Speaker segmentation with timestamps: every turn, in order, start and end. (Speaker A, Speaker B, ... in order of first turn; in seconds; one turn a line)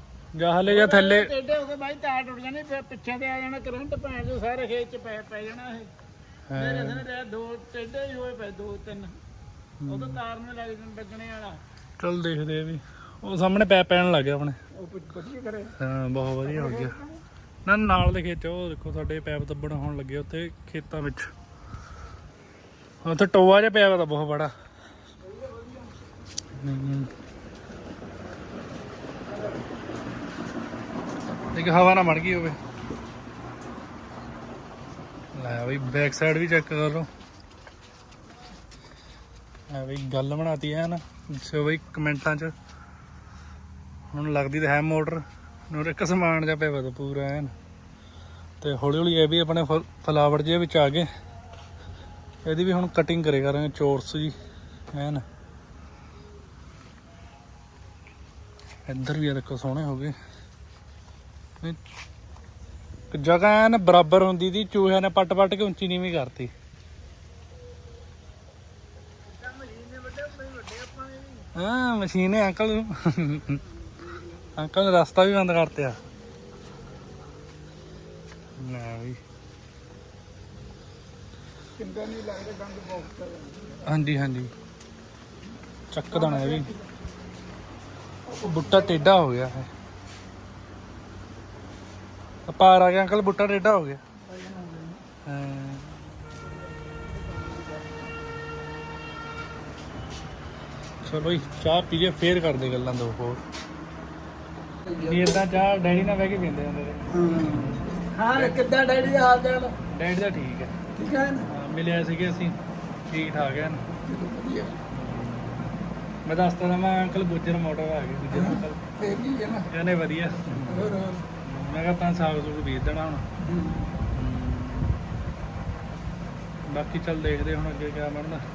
Speaker A: 0.3-1.3
Speaker B: 0.7-5.9
Speaker A: 6.5-7.0
Speaker B: 6.5-9.1
Speaker A: 9.8-10.2
Speaker B: 9.8-11.6
Speaker A: 12.0-14.6
Speaker B: 14.8-15.7
Speaker A: 15.8-16.9
Speaker B: 16.4-17.2
Speaker A: 17.6-21.3
Speaker A: 23.0-24.5
Speaker B: 25.2-26.0
Speaker A: 26.6-27.1
Speaker B: 29.2-29.6
Speaker A: 31.5-32.6
Speaker A: 35.3-37.1
Speaker A: 39.7-42.5
Speaker A: 44.1-47.5
Speaker A: 48.6-51.1
Speaker A: 52.4-54.3
Speaker A: 54.9-55.2
Speaker A: 58.9-60.1
Speaker A: 63.1-66.5
Speaker B: 69.2-71.5
Speaker A: 71.5-73.6
Speaker B: 73.8-74.5
Speaker A: 74.6-76.0
Speaker A: 78.6-79.2
Speaker B: 81.8-83.8
Speaker A: 83.8-84.5
Speaker A: 85.9-86.7
Speaker B: 86.1-86.9
Speaker B: 88.3-89.1
Speaker A: 88.4-89.7
Speaker A: 92.5-94.0
Speaker B: 94.2-95.0
Speaker A: 95.2-95.9
Speaker B: 96.4-98.1
Speaker A: 101.0-103.4
Speaker A: 104.9-108.5
Speaker B: 107.1-109.8
Speaker A: 109.9-110.7
Speaker B: 110.9-111.5
Speaker A: 111.5-112.5
Speaker A: 113.1-113.8
Speaker B: 113.9-114.8
Speaker A: 114.9-115.7
Speaker A: 116.2-118.9
Speaker B: 118.3-119.7
Speaker A: 119.7-123.3
Speaker B: 120.7-121.2
Speaker B: 123.4-123.9
Speaker A: 124.1-125.0
Speaker A: 126.7-128.4